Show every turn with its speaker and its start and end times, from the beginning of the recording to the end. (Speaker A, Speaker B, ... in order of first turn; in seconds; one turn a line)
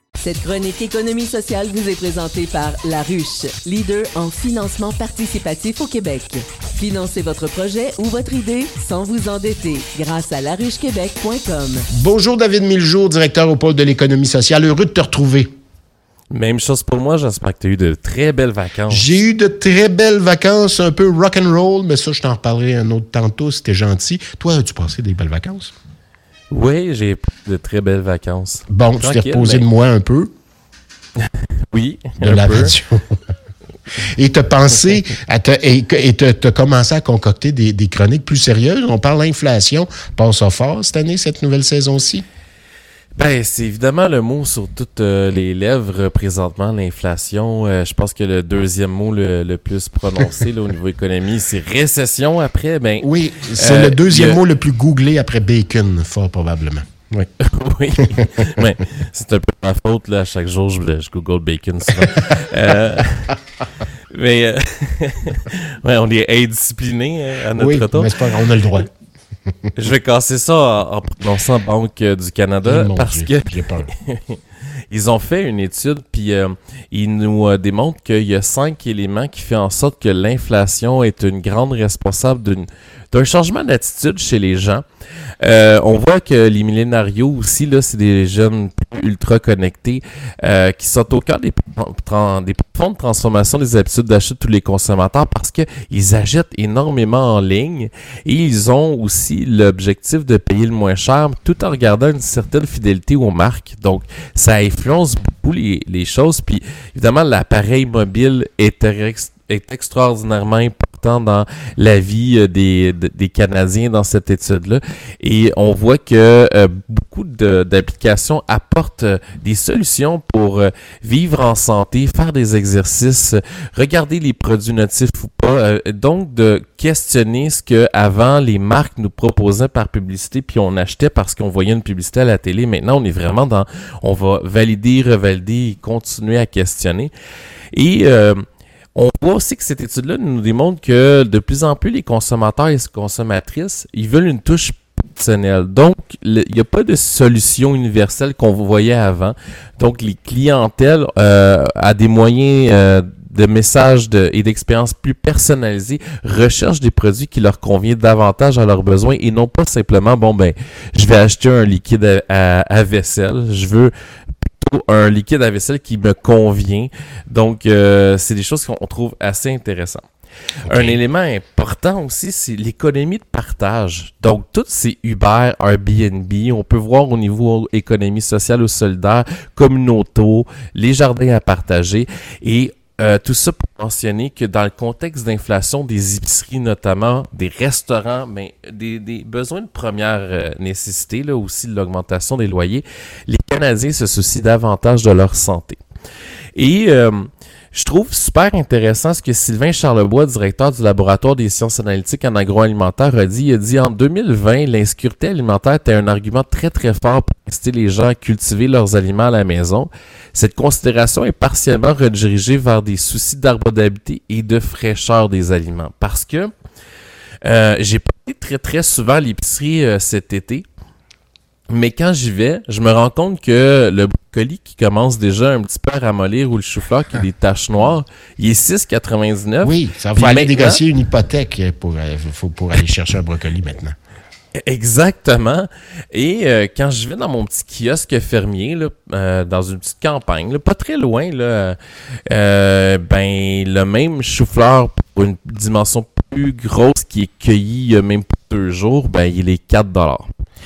Speaker A: 0.2-11.8
Speaker B: 11.9-15.5
Speaker C: 16.3-19.2
Speaker B: 18.9-25.7
Speaker C: 26.5-29.6
Speaker B: 28.7-30.3
Speaker C: 31.2-32.8
Speaker B: 32.2-33.0
Speaker B: 34.0-42.2
Speaker C: 43.1-54.4
Speaker B: 53.0-57.2
Speaker C: 57.4-63.4
Speaker B: 58.0-58.3
Speaker C: 64.1-68.1
Speaker B: 67.5-68.9
Speaker C: 69.8-74.4
Speaker B: 72.6-73.9
Speaker C: 74.9-84.8
Speaker C: 85.4-137.1
Speaker C: 137.7-138.4
Speaker C: 138.9-163.9
Speaker C: 164.5-170.0
Speaker B: 170.6-171.0
Speaker C: 170.7-195.8
Speaker C: 196.5-216.5
Speaker C: 217.4-220.6
Speaker C: 221.7-230.8
Speaker B: 229.6-233.9
Speaker C: 234.6-241.8
Speaker C: 242.3-250.2